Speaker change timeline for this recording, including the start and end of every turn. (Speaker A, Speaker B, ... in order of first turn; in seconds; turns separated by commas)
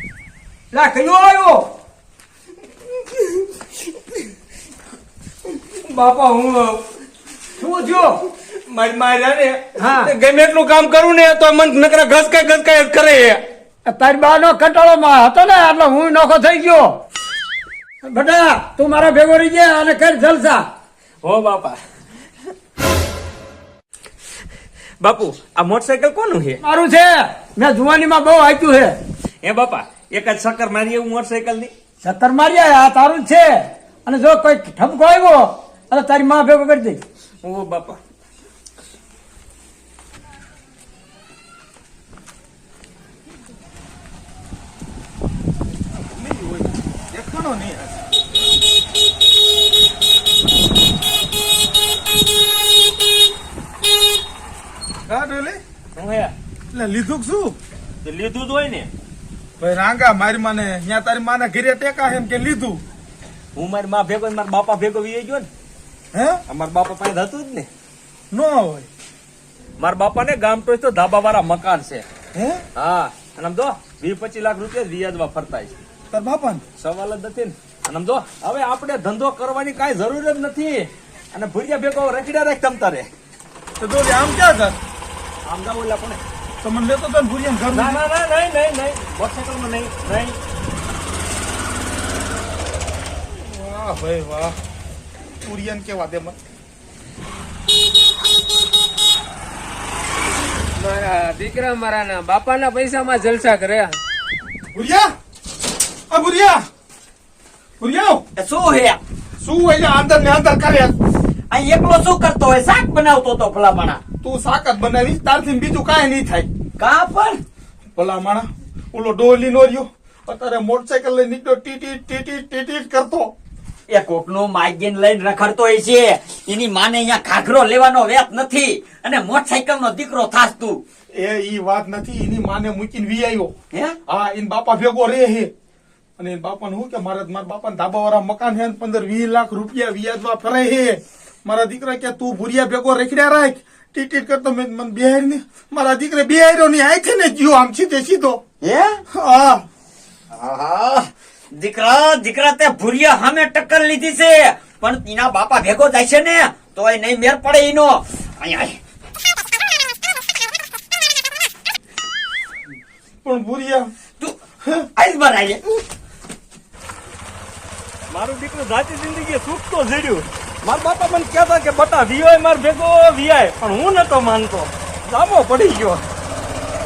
Speaker A: 0.7-1.6, Speaker B: 5.7-6.8, Speaker A: 7.6-8.2, Speaker B: 8.7-13.4, Speaker A: 9.8-10.1, Speaker A: 13.9-16.9, Speaker A: 18.0-20.6, Speaker B: 21.2-21.8, Speaker B: 25.0-26.6, Speaker A: 26.6-29.0, Speaker B: 29.4-31.7, Speaker A: 32.0-37.0, Speaker B: 37.4-38.0, Speaker C: 46.1-48.0, Speaker C: 55.1-55.6, Speaker B: 56.0-56.3, Speaker C: 56.7-57.6, Speaker B: 58.0-58.9, Speaker C: 59.6-62.8, Speaker B: 63.5-65.5, Speaker C: 66.1-66.4, Speaker B: 66.5-67.7, Speaker C: 68.3-68.9, Speaker B: 69.8-72.1, Speaker C: 72.3-72.6, Speaker B: 72.8-75.8, Speaker C: 76.1-76.6, Speaker B: 76.8-83.1, Speaker C: 83.8-84.8, Speaker B: 85.5-86.2, Speaker C: 86.6-88.0, Speaker B: 87.7-90.4, Speaker C: 93.3-94.6, Speaker C: 95.4-96.4, Speaker D: 100.8-104.0, Speaker C: 104.7-105.1, Speaker C: 106.1-106.6, Speaker C: 107.8-108.2, Speaker E: 108.4-109.0, Speaker C: 109.4-111.0, Speaker E: 111.5-114.0, Speaker C: 114.2-116.5, Speaker E: 116.8-117.4, Speaker C: 117.9-123.3, Speaker E: 123.9-130.8, Speaker C: 131.1-133.5, Speaker E: 133.7-134.0, Speaker C: 134.1-135.5, Speaker C: 136.2-148.4, Speaker E: 148.6-149.0, Speaker C: 149.1-149.6, Speaker E: 150.3-158.8, Speaker C: 163.2-163.9, Speaker E: 165.0-165.6, Speaker B: 168.1-176.1